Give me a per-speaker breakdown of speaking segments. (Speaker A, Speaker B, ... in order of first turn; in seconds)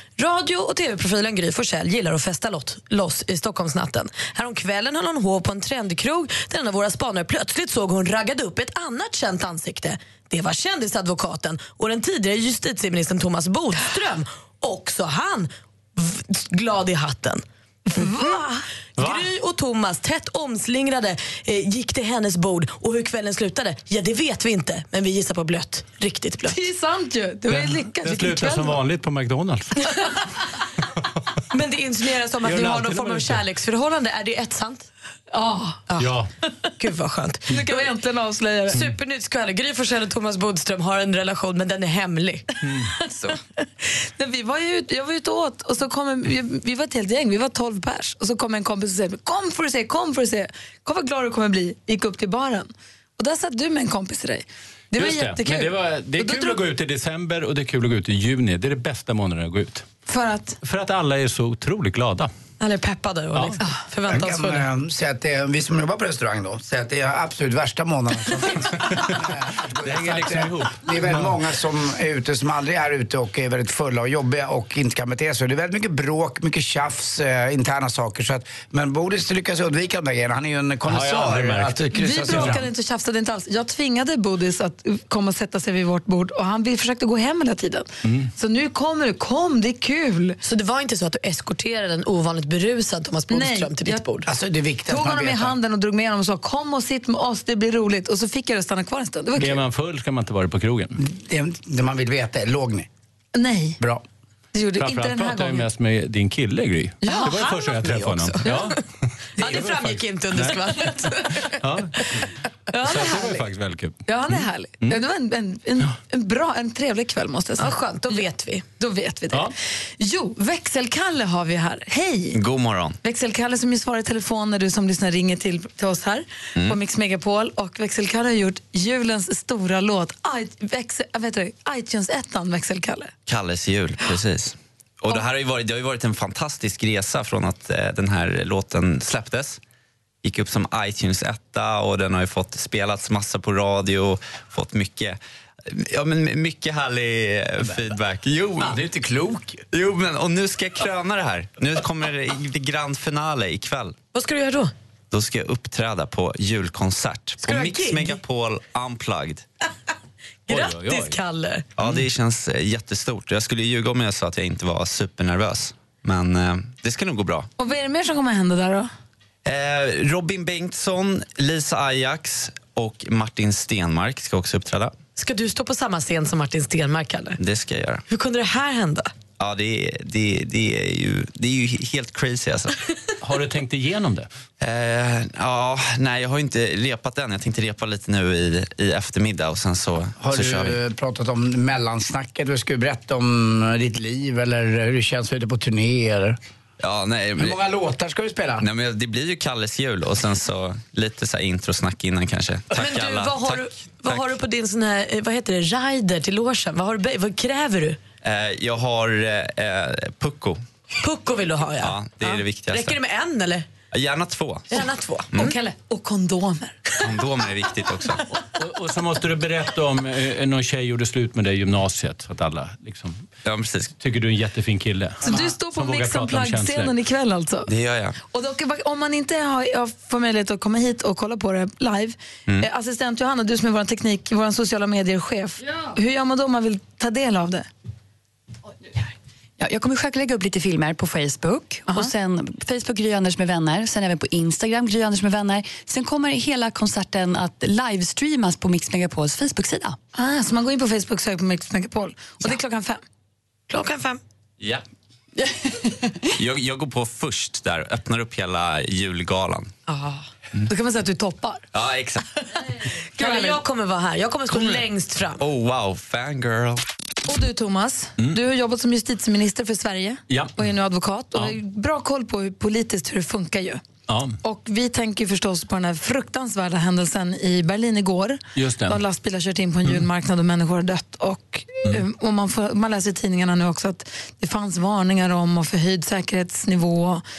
Speaker A: 0.2-17.4, 18.0-18.5, 19.0-26.6, 31.5-34.9, 35.9-36.2, 36.8-37.9, 38.7-42.5, 62.6-64.7, 90.4-94.3, 107.0-108.8, 109.4-111.6, 112.8-113.3, 117.6-118.6, 154.1-154.7, 157.4-158.2, 160.5-161.7, 175.2-177.4, 178.1-179.1, 202.7-208.0, 211.0-213.7, 214.7-215.5, 253.7-254.2, 259.9-260.2, 263.2-265.4
Speaker B: 17.9-18.6, 26.5-28.8, 35.3-35.9, 37.5-38.9, 44.2-56.6, 60.1-60.6, 81.9-90.4, 93.3-94.0, 94.9-99.6, 103.3-103.8, 104.5-105.7, 107.0-107.5, 112.7-113.4, 114.1-118.3, 118.8-122.4, 123.0-133.1, 167.6-168.9, 215.3-216.8, 225.2-227.7, 228.3-237.7, 250.2-253.0, 260.7-261.6, 263.2-263.6, 267.3-273.8, 274.4-287.2
Speaker C: 19.0-19.3, 27.5-29.8, 32.4-33.4, 36.0-36.3, 42.6-43.0, 54.9-59.9, 60.6-62.3, 68.8-71.4, 80.8-82.7, 88.0-88.3, 99.4-101.0, 104.8-108.8, 109.4-112.3, 112.8-115.0, 160.5-161.2, 183.2-184.3, 218.5-223.2, 224.0-226.9, 270.3-270.6, 274.1-274.4, 278.6-279.0
Speaker D: 64.1-82.6, 94.3-95.6, 101.0-102.9, 148.6-149.6, 190.2-196.4, 197.4-198.7
Speaker E: 122.3-123.0, 133.3-139.6, 140.2-148.8, 149.7-154.0, 155.1-159.4, 161.8-167.5, 169.4-174.9, 177.4-178.0, 179.4-182.8, 184.6-190.8, 196.8-197.6, 198.6-204.4, 208.2-210.6, 211.8-213.0, 213.9-215.5, 217.0-218.2, 223.4-224.0, 227.7-228.2, 256.4-259.7, 261.7-262.3, 265.4-266.8
Speaker F: 239.6-250.0